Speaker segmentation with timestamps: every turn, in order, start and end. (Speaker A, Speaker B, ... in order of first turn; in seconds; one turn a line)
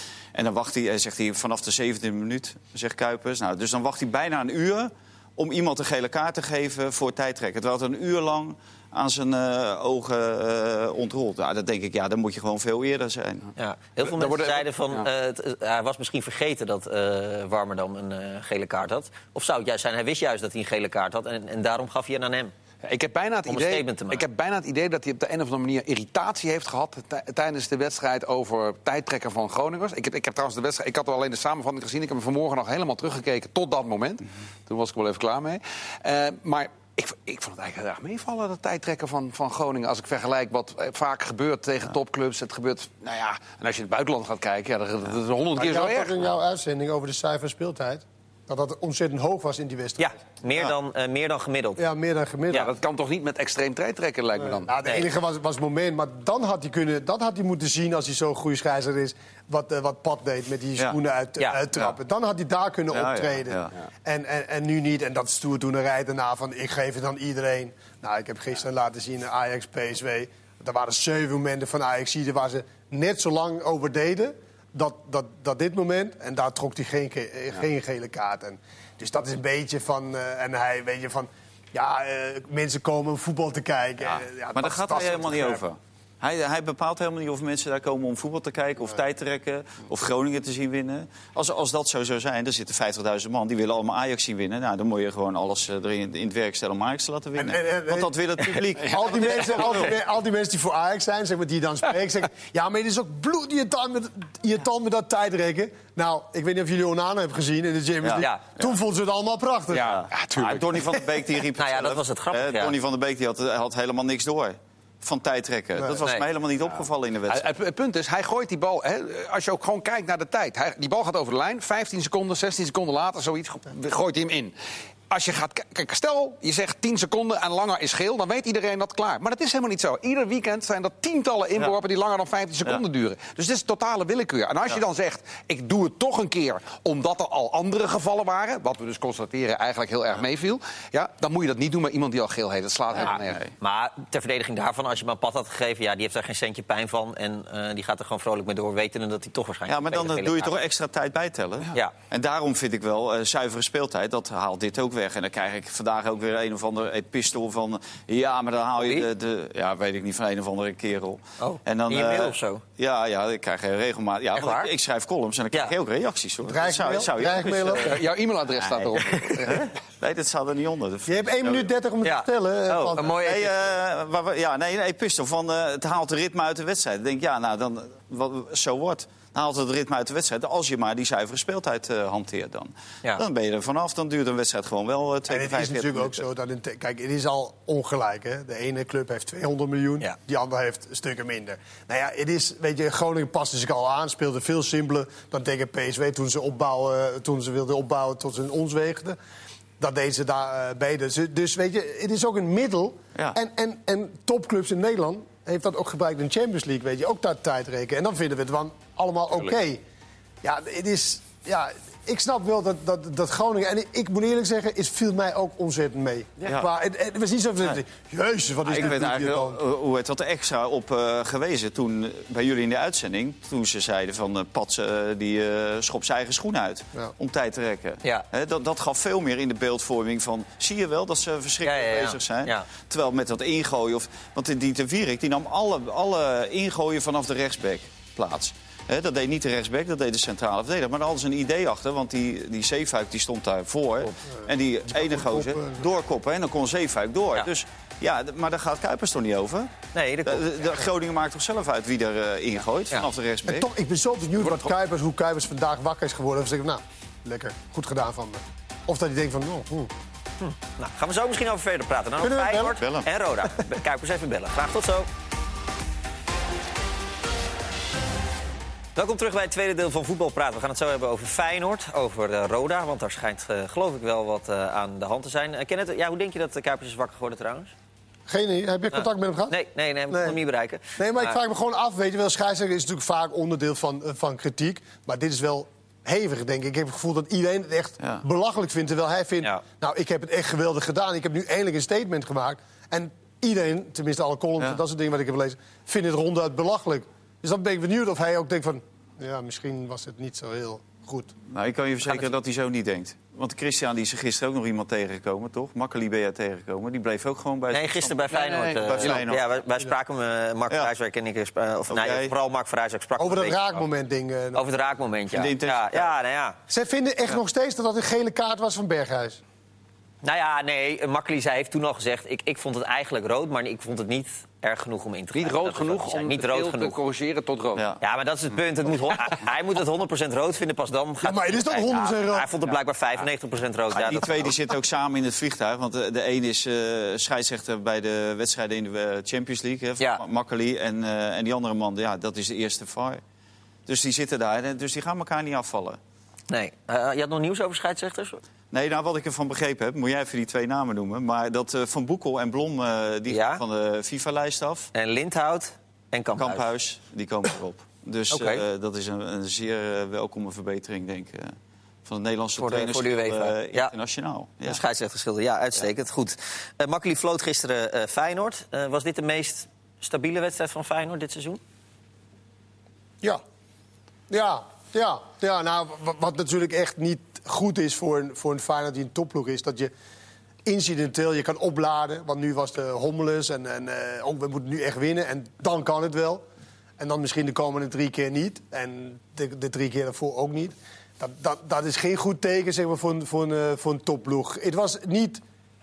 Speaker A: 0.3-13.5
Speaker B: 13.6-22.5
Speaker C: 14.0-15.1
Speaker C: 22.8-46.2
Speaker B: 23.5-24.2
Speaker D: 45.5-50.2
Speaker B: 50.0-51.8
Speaker D: 51.8-52.7
Speaker C: 52.5-54.7
Speaker D: 54.4-85.6
Speaker A: 62.9-63.7
Speaker A: 84.0-100.0
Speaker D: 97.4-110.0
Speaker A: 108.0-108.7
Speaker C: 109.7-110.9
Speaker A: 109.8-117.5
Speaker B: 111.6-112.8
Speaker B: 116.0-116.2
Speaker C: 117.3-124.5
Speaker C: 125.1-143.4
Speaker A: 143.0-143.5
Speaker B: 143.6-150.5
Speaker A: 149.7-168.0
Speaker B: 158.8-159.1
Speaker B: 161.4-162.6
Speaker B: 164.3-164.7
Speaker D: 166.4-168.0
Speaker C: 167.8-169.7
Speaker A: 168.6-171.7
Speaker D: 171.1-173.1
Speaker B: 172.0-173.5
Speaker A: 173.0-186.2
Speaker D: 185.3-199.2
Speaker D: 199.8-209.8
Speaker D: 210.4-219.6
Speaker A: 218.7-249.7
Speaker B: 231.6-232.7
Speaker D: 244.3-245.9
Speaker B: 249.9-250.4
Speaker A: 250.2-253.7
Speaker D: 253.5-259.9
Speaker C: 254.4-254.7
Speaker B: 260.4-265.1
Speaker D: 262.2-262.8
Speaker A: 262.8-263.1
Speaker B: 269.0-277.7
Speaker D: 278.3-279.6
Speaker B: 278.9-281.4
Speaker D: 280.1-280.4
Speaker D: 281.0-301.3
Speaker A: 301.5-308.2
Speaker B: 307.7-313.8
Speaker C: 308.3-309.2
Speaker A: 308.7-309.5
Speaker A: 311.9-312.3
Speaker D: 313.2-314.6
Speaker B: 314.6-316.6
Speaker A: 315.3-316.1
Speaker D: 316.7-319.4
Speaker B: 320.2-327.0
Speaker C: 325.3-327.9
Speaker A: 327.8-328.0
Speaker B: 328.0-334.3
Speaker D: 331.2-332.5
Speaker A: 333.9-343.2
Speaker A: 343.9-346.0
Speaker B: 346.5-348.4
Speaker A: 348.7-354.9
Speaker B: 353.3-353.6
Speaker B: 354.9-356.6
Speaker A: 356.4-364.8
Speaker B: 358.3-358.6
Speaker B: 362.6-363.9
Speaker B: 364.7-371.6
Speaker D: 374.3-379.9
Speaker D: 380.7-386.4
Speaker D: 387.0-395.4